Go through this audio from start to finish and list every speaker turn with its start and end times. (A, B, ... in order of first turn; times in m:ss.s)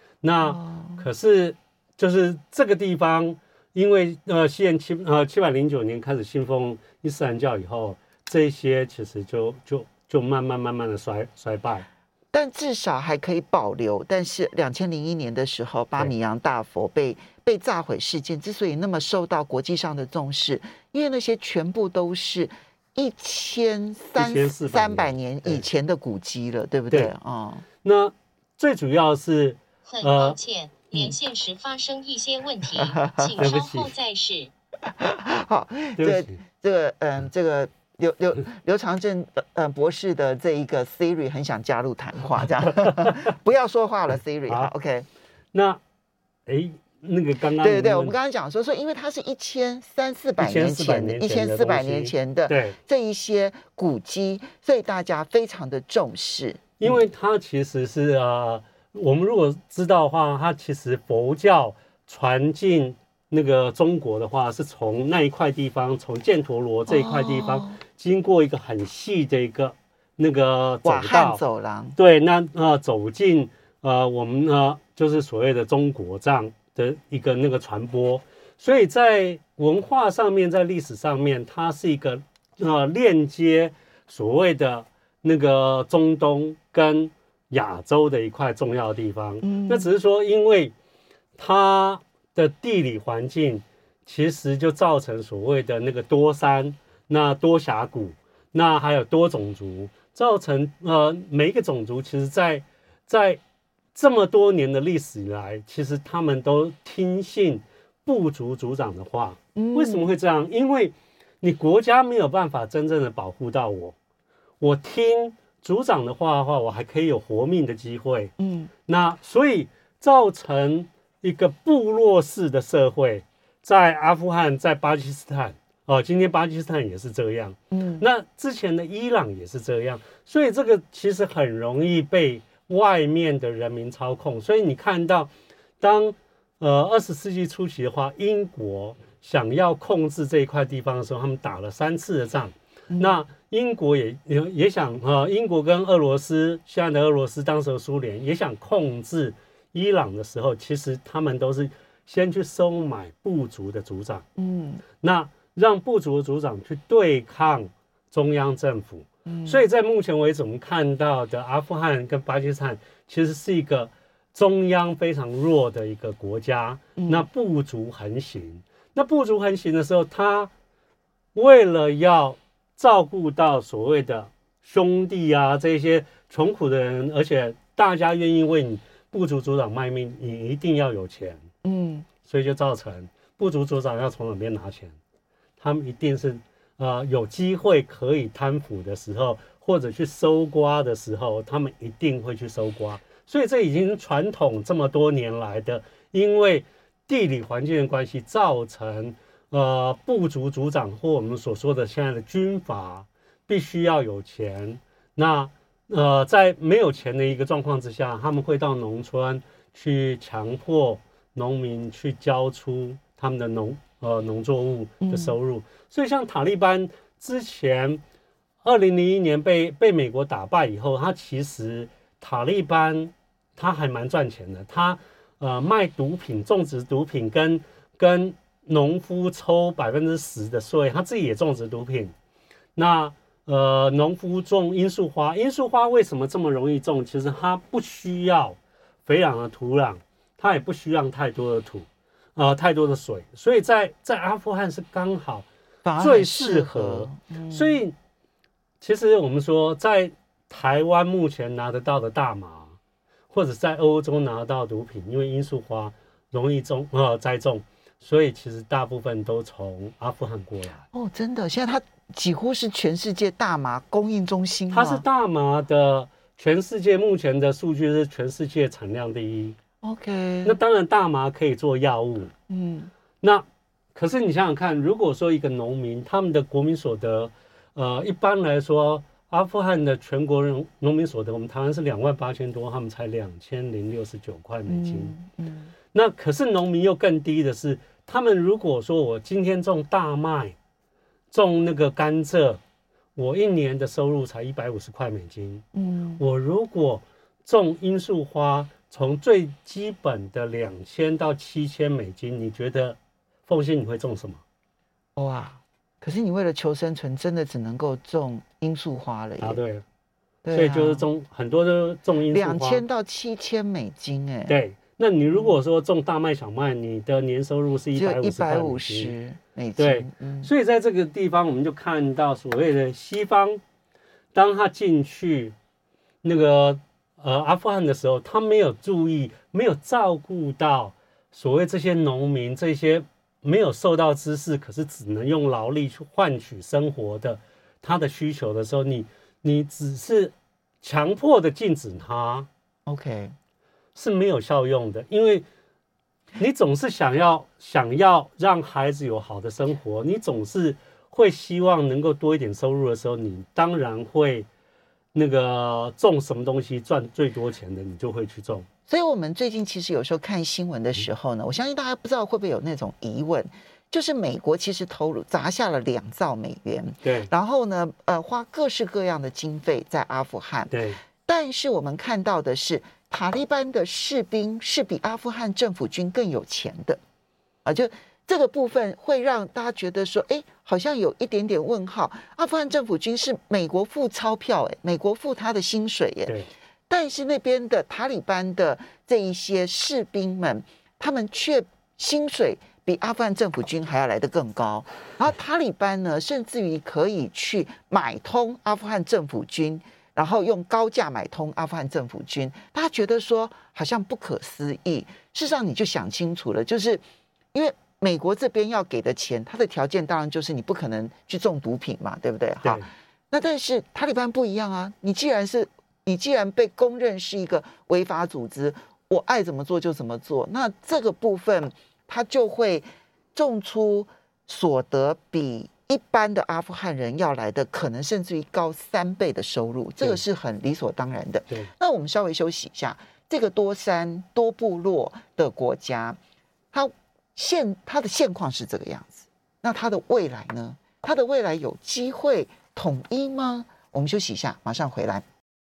0:00.2-0:11.9 A
0:00.4-0:01.0 B
0:12.3-0:27.6 B
0:24.2-0:25.6 A
0:27.8-0:30.4 A
0:29.9-0:34.5 C
0:32.7-0:33.5 B
0:33.4-0:33.9 A
0:34.8-0:45.1 B
0:36.0-0:36.4 A
0:42.8-0:43.1 A
0:45.5-0:45.8 A
0:46.5-0:48.1 A
0:47.6-0:57.0 B
0:50.4-0:52.8 A
0:56.8-1:11.4 A
1:06.9-1:07.8 B
1:10.8-1:12.0 B
1:12.0-1:30.7 A
1:29.4-1:29.9 B
1:31.4-1:43.4 A
1:43.9-1:54.0 A
1:49.5-1:50.1 B
1:54.6-1:58.3 A
1:58.4-1:58.7 B
1:58.8-2:34.2 A
2:07.7-2:08.0 B
2:22.9-2:23.2 B
2:34.4-2:34.8 B
2:35.0-2:50.5 A
2:39.2-2:39.6 B
2:47.0-2:47.2 B
2:51.3-3:01.4 A
3:01.6-3:02.1 B
3:02.2-3:05.0 A
3:05.6-3:38.0 A
3:35.0-3:35.4 B
3:38.6-3:52.1 A
3:52.8-4:05.4 A
4:05.8-4:07.8 B
4:06.0-4:07.9 A
4:08.8-4:12.7 A
4:13.3-4:20.8 A
4:20.9-4:25.0 B
4:24.7-4:29.6 A
4:29.8-4:30.6 B
4:30.4-4:32.3 A
4:32.5-4:32.9 B
4:33.2-4:45.1 A
4:44.7-4:45.7 B
4:45.9-4:50.5 A
4:51.3-4:52.6 A
4:53.2-4:55.6 A
4:55.7-4:56.2 B
4:56.2-5:04.4 A
5:05.2-5:09.6 B
5:09.4-5:09.8 A
5:10.4-5:11.0 B
5:10.5-5:12.8 A
5:12.3-5:14.5 B
5:14.5-5:19.1 A
5:17.9-5:20.5 B
5:19.8-5:23.6 A
5:24.3-5:25.5 A
5:26.2-5:42.5 A
5:42.8-5:43.3 B
5:43.9-5:45.4 A
5:46.4-5:54.5 A
5:55.1-5:58.7 A
5:58.9-6:17.0 B
6:07.0-6:07.3 A
6:10.7-6:11.0 A
6:17.6-6:26.4 B
6:26.9-6:47.0 B
6:47.5-7:16.2 B
7:16.7-7:25.2 B